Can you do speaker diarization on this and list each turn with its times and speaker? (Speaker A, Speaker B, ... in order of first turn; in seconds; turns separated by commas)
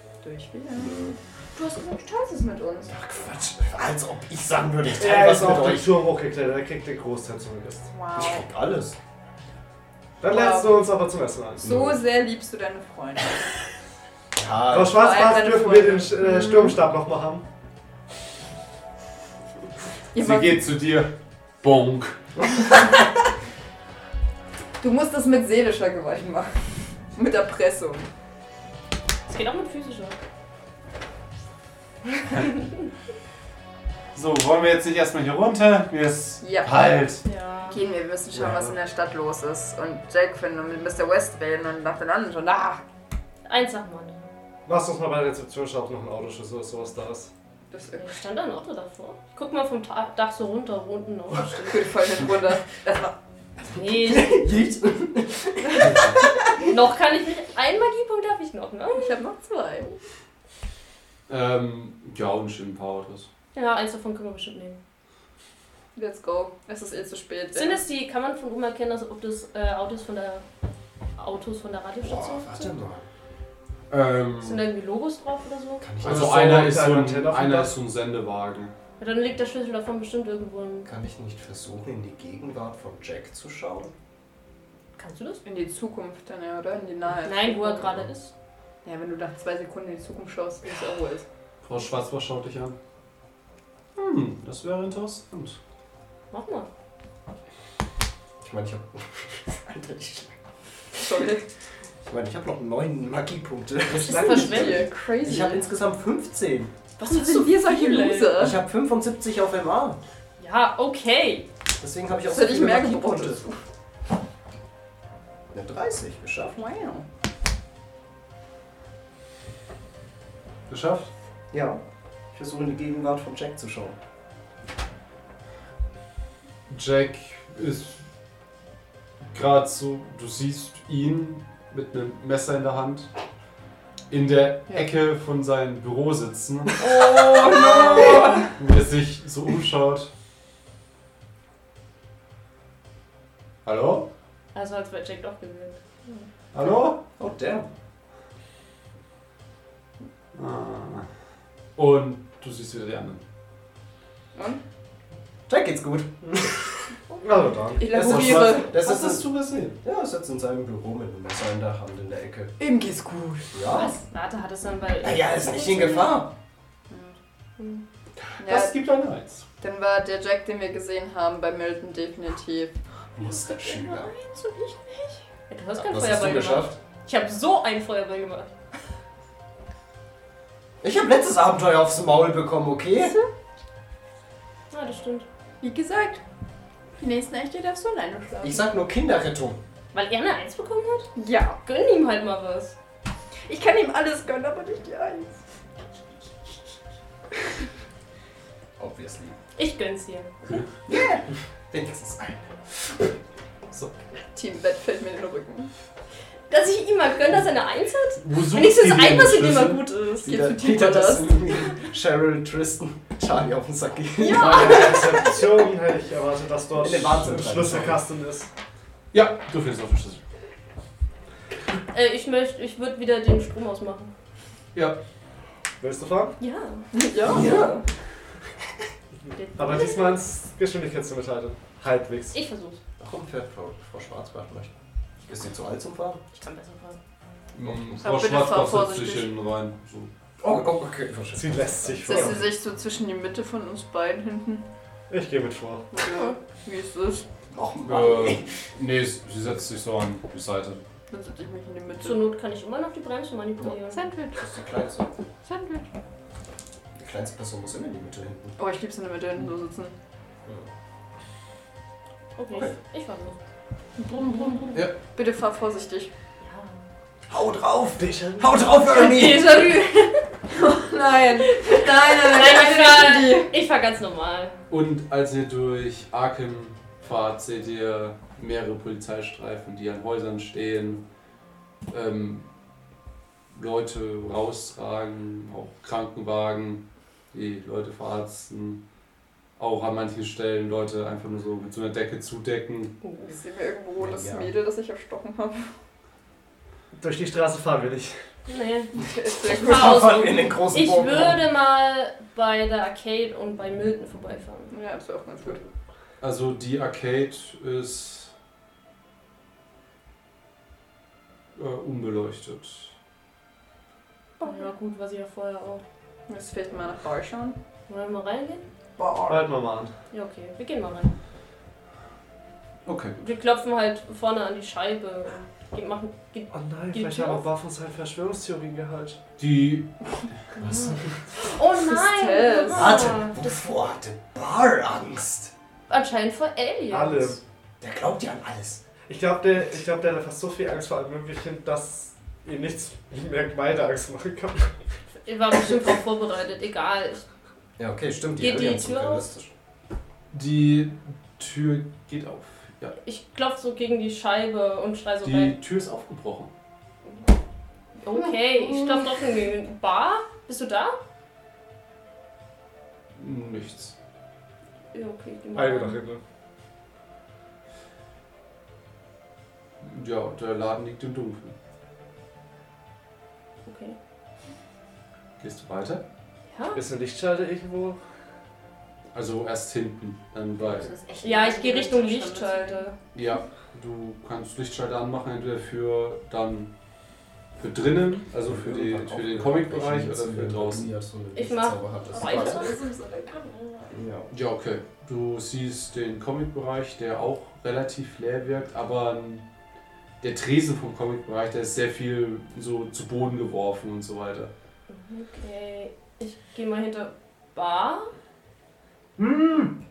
Speaker A: 0.2-2.9, Speaker B: 0.8-1.1, Speaker B: 2.9-6.0, Speaker C: 5.0-7.9, Speaker A: 7.9-8.4, Speaker B: 8.1-8.9, Speaker C: 10.2-11.8, Speaker A: 10.2-10.8, Speaker B: 11.6-12.0, Speaker A: 11.6-13.5, Speaker B: 14.3-15.0, Speaker C: 14.7-17.4, Speaker A: 14.9-16.8, Speaker A: 20.1-20.6, Speaker D: 20.1-22.2, Speaker A: 24.8-26.6, Speaker A: 27.1-28.1, Speaker E: 29.3-30.2, Speaker E: 32.2-32.6, Speaker D: 34.1-37.2, Speaker A: 36.4-36.7, Speaker E: 37.2-37.8, Speaker A: 37.7-42.8, Speaker C: 38.4-38.6, Speaker E: 43.5-44.3, Speaker C: 44.6-47.3, Speaker A: 47.7-48.1, Speaker E: 47.9-51.8, Speaker A: 51.5-53.1, Speaker E: 53.7-54.4, Speaker B: 53.8-56.0, Speaker E: 56.5-59.1, Speaker A: 58.9-60.0, Speaker D: 61.3-63.3, Speaker E: 63.5-64.8, Speaker A: 65.9-67.8, Speaker E: 67.5-70.4, Speaker E: 71.2-72.8, Speaker B: 72.0-73.0, Speaker D: 73.9-74.7, Speaker E: 74.4-75.9, Speaker B: 75.8-76.7, Speaker C: 76.0-77.7, Speaker D: 76.0-78.7, Speaker E: 79.0-80.9, Speaker B: 80.8-83.9, Speaker E: 85.0-85.4, Speaker A: 85.4-87.9, Speaker E: 87.2-88.3, Speaker A: 88.8-91.2, Speaker D: 91.6-92.8, Speaker D: 94.0-95.6, Speaker E: 96.3-96.7, Speaker B: 98.4-100.3, Speaker A: 101.0-101.4, Speaker B: 102.0-106.7, Speaker E: 104.0-104.9, Speaker A: 104.1-105.7, Speaker A: 107.0-108.5, Speaker E: 107.0-108.5, Speaker B: 108.4-110.0, Speaker E: 110.4-111.5, Speaker B: 111.8-113.4, Speaker A: 112.3-113.6, Speaker B: 115.5-116.6, Speaker A: 116.5-117.0, Speaker D: 120.7-121.1, Speaker B: 121.5-121.8, Speaker B: 122.3-124.0, Speaker D: 126.7-128.0, Speaker D: 129.3-133.1, Speaker D: 134.1-136.8, Speaker E: 136.8-138.4, Speaker A: 136.8-138.5, Speaker D: 138.5-140.1, Speaker D: 143.6-144.1, Speaker E: 144.5-146.3, Speaker D: 146.5-147.0, Speaker B: 147.0-147.7, Speaker D: 150.3-151.1, Speaker D: 151.8-153.2, Speaker A: 154.3-154.6, Speaker B: 155.5-156.6, Speaker C: 157.2-157.8, Speaker A: 157.8-158.7, Speaker B: 157.8-162.5, Speaker D: 157.9-159.8, Speaker A: 162.6-163.6, Speaker B: 163.5-163.9, Speaker E: 163.7-166.2, Speaker B: 165.0-166.3, Speaker A: 166.9-167.2, Speaker E: 167.6-167.8, Speaker A: 168.4-168.8, Speaker D: 168.4-169.4, Speaker A: 169.6-172.8, Speaker B: 173.1-174.1, Speaker A: 173.3-175.2, Speaker E: 175.5-178.5, Speaker B: 175.8-176.7, Speaker B: 180.8-183.2, Speaker E: 184.7-185.2, Speaker A: 185.6-186.2, Speaker A: 187.0-188.7, Speaker B: 188.4-189.6, Speaker E: 189.9-191.1, Speaker A: 191.2-191.6, Speaker E: 191.6-192.7, Speaker A: 193.5-195.3, Speaker B: 198.8-199.4, Speaker E: 199.6-200.6, Speaker B: 200.9-202.6, Speaker A: 204.3-205.7, Speaker E: 206.5-210.3, Speaker D: 208.2-209.8, Speaker A: 210.2-211.5, Speaker B: 210.2-215.1, Speaker A: 214.2-215.2, Speaker C: 214.3-218.5, Speaker E: 214.4-214.7, Speaker B: 216.7-218.0, Speaker D: 219.1-220.2, Speaker E: 221.9-224.1, Speaker C: 225.8-226.4, Speaker E: 226.4-226.8, Speaker A: 226.9-227.8, Speaker B: 227.2-227.8, Speaker E: 229.3-230.2, Speaker C: 229.6-232.4, Speaker E: 232.3-232.8, Speaker B: 233.0-236.2, Speaker E: 236.3-237.0, Speaker D: 237.5-240.1, Speaker B: 237.6-238.0, Speaker A: 238.0-239.3, Speaker B: 240.4-242.4, Speaker C: 241.3-242.4, Speaker A: 242.0-244.7, Speaker C: 245.1-245.9, Speaker A: 245.9-247.2, Speaker E: 246.1-246.3, Speaker B: 247.5-248.5, Speaker D: 247.8-250.8, Speaker A: 251.1-252.2, Speaker E: 252.0-254.1, Speaker A: 253.9-254.4, Speaker B: 254.3-255.1, Speaker A: 255.4-255.8, Speaker B: 256.9-258.5, Speaker A: 258.6-259.9, Speaker E: 262.4-263.4, Speaker E: 264.1-264.7, Speaker A: 265.1-266.1, Speaker E: 266.4-266.8, Speaker B: 267.3-269.8, Speaker C: 268.0-268.5, Speaker E: 268.9-270.2, Speaker A: 269.1-269.9, Speaker A: 270.5-273.5, Speaker E: 271.5-274.6, Speaker D: 274.7-281.0, Speaker D: 281.9-282.5, Speaker D: 283.5-288.8, Speaker D: 289.6-292.9, Speaker E: 293.0-293.3, Speaker A: 293.3-295.7, Speaker B: 294.0-294.5, Speaker C: 297.0-298.2, Speaker E: 298.5-304.7, Speaker A: 298.9-300.3, Speaker B: 299.5-301.4, Speaker A: 304.7-305.6, Speaker D: 306.2-308.3, Speaker D: 311.6-312.9, Speaker A: 314.4-314.7, Speaker E: 314.4-315.8, Speaker A: 316.3-317.6, Speaker E: 317.9-318.6, Speaker C: 319.3-319.9, Speaker E: 320.1-321.1, Speaker D: 322.9-323.2, Speaker E: 323.2-327.4, Speaker C: 326.5-329.2, Speaker D: 329.4-329.9, Speaker E: 330.6-333.4, Speaker A: 331.7-333.1, Speaker B: 332.7-335.5, Speaker E: 335.9-337.4, Speaker C: 336.9-337.4, Speaker B: 337.8-338.8, Speaker C: 339.1-344.7, Speaker E: 345.2-347.2, Speaker B: 347.8-349.5, Speaker E: 348.4-349.2, Speaker D: 350.3-352.9, Speaker E: 353.0-355.6, Speaker D: 355.2-356.5, Speaker E: 358.0-361.0, Speaker D: 363.1-363.9, Speaker E: 364.9-366.0, Speaker C: 365.5-366.2, Speaker D: 369.8-371.6, Speaker E: 373.6-373.9, Speaker D: 375.4-376.0, Speaker E: 376.5-376.8, Speaker C: 376.7-378.0, Speaker D: 379.1-380.9, Speaker A: 380.6-382.8, Speaker E: 381.2-383.0, Speaker D: 383.1-386.7, Speaker D: 387.6-391.0, Speaker B: 388.4-392.7, Speaker E: 391.3-392.8, Speaker A: 392.1-393.9, Speaker B: 393.9-394.3, Speaker D: 394.3-399.4, Speaker D: 400.2-404.5, Speaker E: 404.9-408.1, Speaker D: 409.2-409.8